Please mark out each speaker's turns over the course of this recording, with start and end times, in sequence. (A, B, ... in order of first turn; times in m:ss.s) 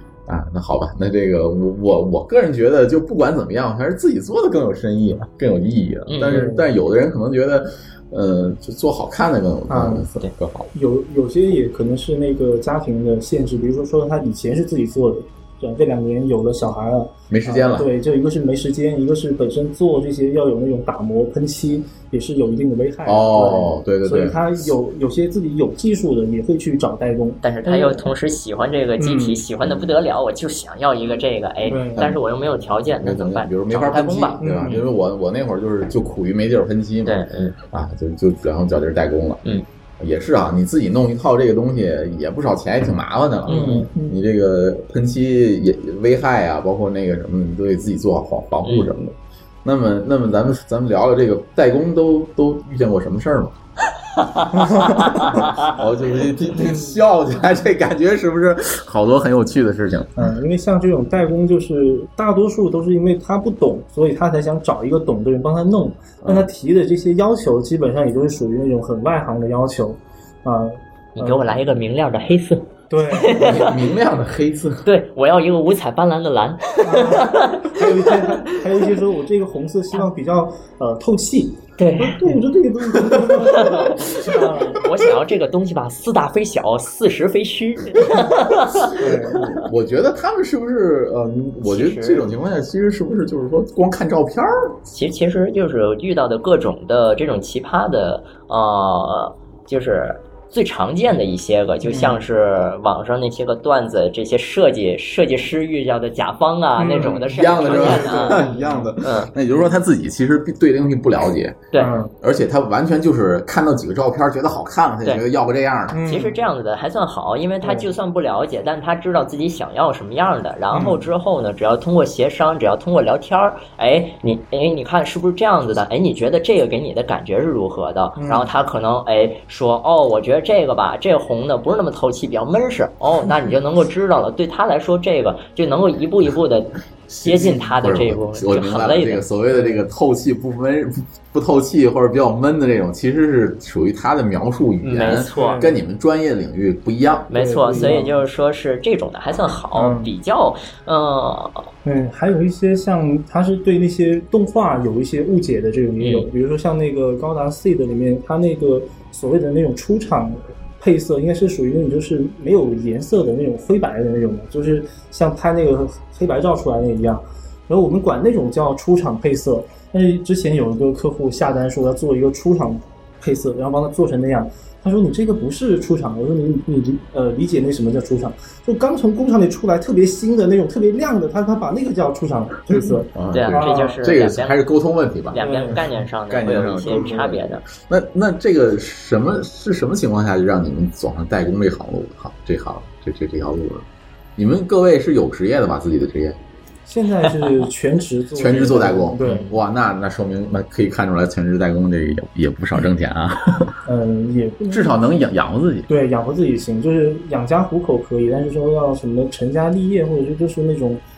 0:00.3-0:10.7 A
0:06.1-0:06.4 B
0:06.2-0:06.6 C
0:09.7-0:10.1 C
0:10.7-0:28.1 C
0:17.3-0:17.9 A
0:23.0-0:24.7 A
0:27.4-0:34.8 B
0:29.0-0:29.4 C
0:29.6-0:29.9 A
0:31.6-0:32.1 C
0:33.0-0:37.2 A
0:34.4-0:34.8 C
0:37.0-0:37.6 B
0:37.7-0:39.4 A
0:40.0-0:53.5 A
0:43.5-0:43.9 B
0:43.5-0:44.2 C
0:48.6-0:48.9 B
0:54.2-0:55.7 B
0:54.6-0:55.3 C
0:54.9-1:00.3 A
0:56.6-0:56.9 C
1:00.2-1:11.6 C
1:06.2-1:06.5 A
1:11.2-1:13.7 B
1:12.9-1:13.7 C
1:13.3-1:14.9 A
1:14.8-1:18.1 B
1:16.8-1:24.9 C
1:21.8-1:22.3 B
1:24.8-1:29.0 B
1:28.9-1:29.5 C
1:29.0-1:34.8 A
1:31.6-1:32.3 B
1:34.9-1:48.4 B
1:41.8-1:42.2 C
1:46.8-1:48.9 C
1:47.1-1:51.7 A
1:49.0-1:49.3 B
1:51.8-1:52.1 C
1:52.2-1:56.1 A
1:55.9-1:56.4 C
1:56.1-2:19.3 B
1:57.6-1:57.9 C
2:00.7-2:01.1 C
2:08.2-2:08.5 C
2:17.1-2:28.0 A
2:19.5-2:19.9 C
2:24.8-2:25.6 B
2:25.3-2:25.8 C
2:27.3-2:31.7 B
2:27.3-2:28.2 C
2:29.7-2:30.1 C
2:31.8-3:04.0 C
2:36.0-2:36.3 B
3:02.7-3:16.4 A
3:03.3-3:04.7 B
3:05.3-3:07.6 B
3:05.4-3:06.0 C
3:06.8-3:07.4 C
3:16.8-3:19.4 C
3:18.3-3:23.8 A
3:19.2-3:19.6 B
3:23.8-3:25.2 C
3:24.7-3:25.9 A
3:25.9-3:31.0 C